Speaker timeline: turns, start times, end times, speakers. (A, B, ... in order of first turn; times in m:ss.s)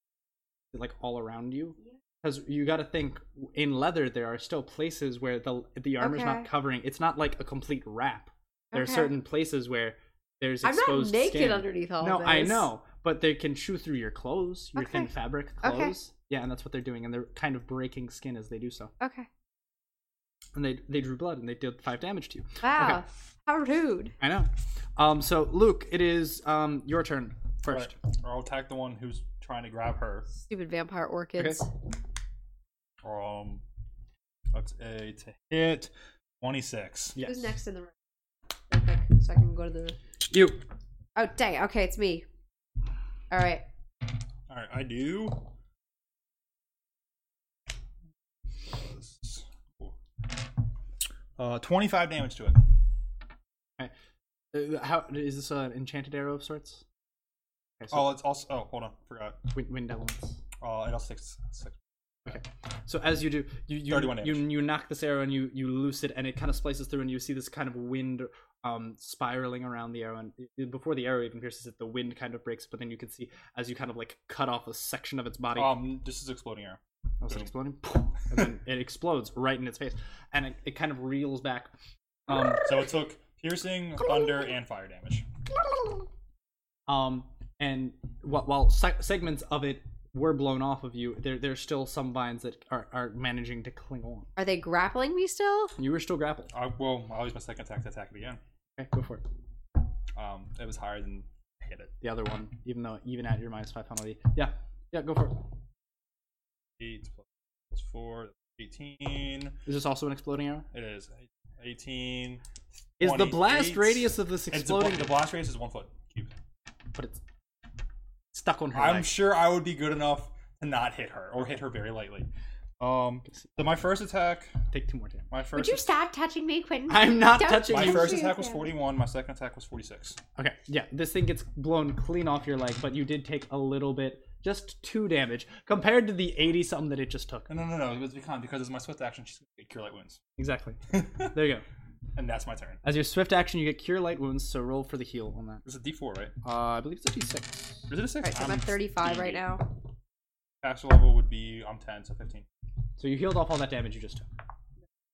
0:00.7-0:18.9 A
0:06.0-0:06.5 B
0:08.7-0:09.1 B
0:10.6-0:12.7 B
0:14.8-0:15.1 B
0:15.6-0:16.0 B
0:19.0-0:19.3 B
0:20.5-0:23.0 A
0:22.6-0:24.1 B
0:24.2-0:27.9 A
0:27.6-0:30.3 C
0:30.4-0:31.7 B
0:31.4-0:31.6 A
0:33.0-0:33.6 C
0:34.5-0:37.2 C
0:37.1-0:37.5 A
0:37.2-0:37.9 B
0:38.7-0:40.0 B
0:40.3-0:40.6 A
0:41.2-0:42.2 B
0:43.3-0:43.6 B
0:44.5-0:45.5 C
0:48.6-0:49.9 C
0:51.4-0:52.6 C
0:54.5-0:56.8 A
0:57.8-0:58.1 A
0:57.9-0:59.5 C
0:59.5-1:00.4 A
1:00.6-1:01.8 C
1:02.2-1:15.8 A
1:03.9-1:04.5 C
1:15.5-1:17.5 C
1:17.2-1:21.7 A
1:22.3-1:22.7 A
1:22.4-1:25.3 C
1:26.9-1:34.3 A
1:34.4-1:35.7 B
1:35.8-1:36.5 A
1:36.5-1:38.4 C
1:38.8-1:39.2 A
1:40.1-1:41.9 C
1:42.0-1:45.5 A
1:46.8-1:49.6 C
1:49.6-1:50.7 A
1:50.7-1:52.4 C
1:53.0-1:55.2 A
1:53.0-1:56.3 C
1:56.9-1:57.2 A
1:58.3-1:59.1 A
1:58.7-2:02.3 C
2:02.8-2:04.6 C
2:03.3-2:03.5 A
2:04.7-2:05.3 A
2:05.3-2:05.9 C
2:05.5-2:08.7 B
2:06.9-2:08.2 A
2:07.6-2:10.2 C
2:10.4-2:17.5 A
2:17.5-2:20.2 C
2:20.4-2:21.6 A
2:20.9-2:21.3 C
2:22.2-2:22.8 C
2:22.8-2:25.6 A
2:25.6-2:26.3 C
2:26.4-2:27.9 A
2:27.9-2:29.4 C
2:28.2-2:29.7 B
2:30.6-2:32.4 C
2:33.0-2:34.3 A